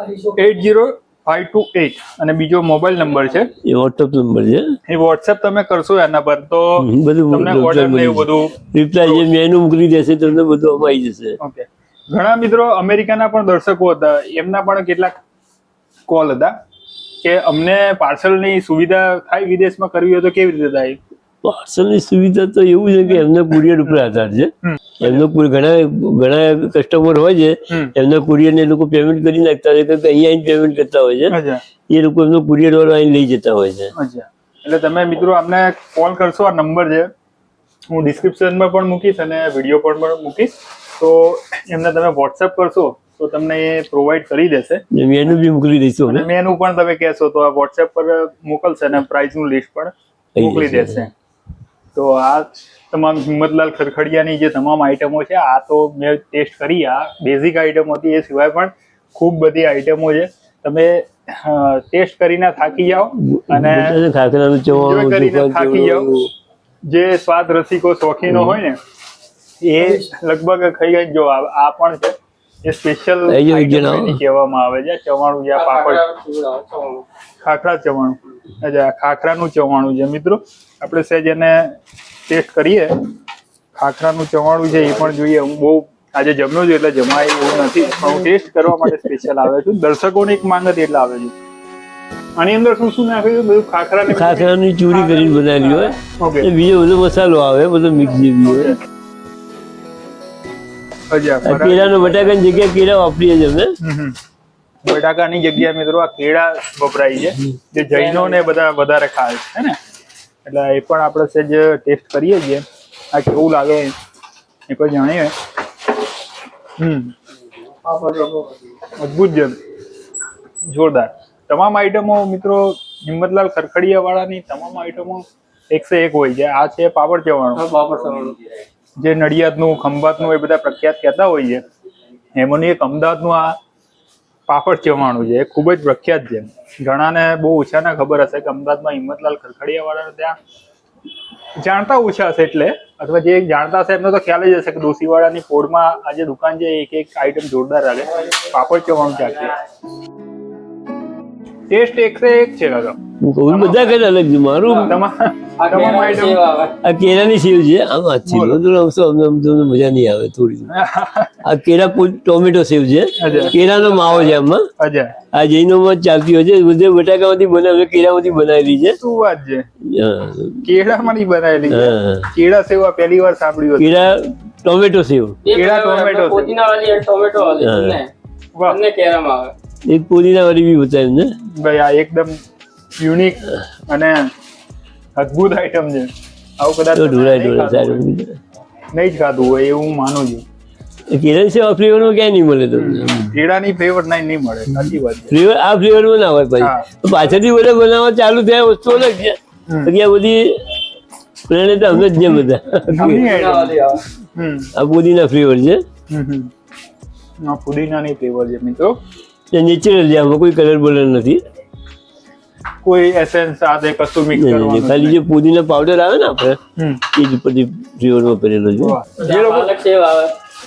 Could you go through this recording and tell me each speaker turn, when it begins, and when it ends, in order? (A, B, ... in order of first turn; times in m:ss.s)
0:00.2-0:03.5 A
0:03.6-0:04.7 B
0:04.9-0:09.3 A
0:06.8-0:11.4 B
0:11.4-0:15.2 A
0:16.1-0:16.6 A
0:17.2-0:21.0 A
0:21.4-0:31.4 B
0:24.6-0:25.2 A
0:31.3-0:31.6 A
0:31.9-0:33.9 B
0:34.0-0:37.1 A
0:37.9-0:44.8 A
0:44.9-0:46.3 B
0:46.1-0:51.1 A
0:50.4-0:50.9 B
0:51.9-1:04.0 A
1:03.3-1:06.3 B
1:04.7-1:06.1 A
1:06.9-1:08.8 A
1:08.3-1:08.6 B
1:09.6-1:16.1 A
1:13.3-1:14.2 B
1:15.6-1:17.0 C
1:17.4-1:23.0 A
1:23.8-1:31.3 A
1:32.4-1:34.6 A
1:34.1-1:38.8 B
1:36.2-1:36.5 A
1:38.5-1:38.8 A
1:41.1-1:42.0 A
1:41.4-1:43.8 B
1:43.8-1:44.2 A
1:44.8-1:49.8 A
1:47.8-1:48.5 C
1:50.4-1:54.0 A
1:54.7-1:55.4 A
1:56.8-1:57.1 A
1:57.8-1:58.6 C
1:59.0-1:59.6 A
2:00.7-2:07.6 A
2:07.6-2:08.4 C
2:09.0-2:11.6 A
2:12.4-2:13.6 A
2:14.5-2:20.4 A
2:21.6-2:29.6 A
2:31.7-2:33.0 A
2:33.2-2:35.0 B
2:33.5-2:34.0 A
2:34.8-2:36.4 A
2:35.6-2:36.8 C
2:36.8-2:40.7 B
2:38.3-2:38.6 A
2:40.7-2:41.4 A
2:41.4-2:44.7 B
2:43.2-2:43.6 A
2:43.2-2:44.3 C
2:44.8-2:45.2 A
2:45.3-2:49.0 B
2:49.0-2:49.7 A
2:49.9-2:50.6 B
2:50.6-2:54.0 A
2:51.7-2:52.3 B
2:53.8-2:55.4 B
2:55.4-2:58.1 C
2:55.5-2:56.6 A
2:57.6-2:58.0 B
2:58.6-2:58.8 A
2:58.6-2:59.5 C
2:59.9-3:01.3 B
3:01.6-3:02.4 A
3:03.0-3:04.3 A
3:05.2-3:08.1 A
3:07.0-3:08.4 B
3:08.9-3:10.4 A
3:11.1-3:13.4 B
3:12.8-3:15.4 A
3:15.3-3:20.6 B
3:16.6-3:16.9 A
3:21.5-3:23.3 B
3:22.9-3:23.8 A
3:23.0-3:24.0 C
3:24.4-3:24.7 A
3:24.8-3:25.8 B
3:26.1-3:26.5 A
3:27.4-3:29.0 A
3:29.5-3:31.4 B
3:32.8-3:35.2 A
3:34.4-3:36.6 B
3:36.8-3:37.0 A
3:37.1-3:39.0 B
3:38.8-3:39.7 A
3:39.2-3:40.4 C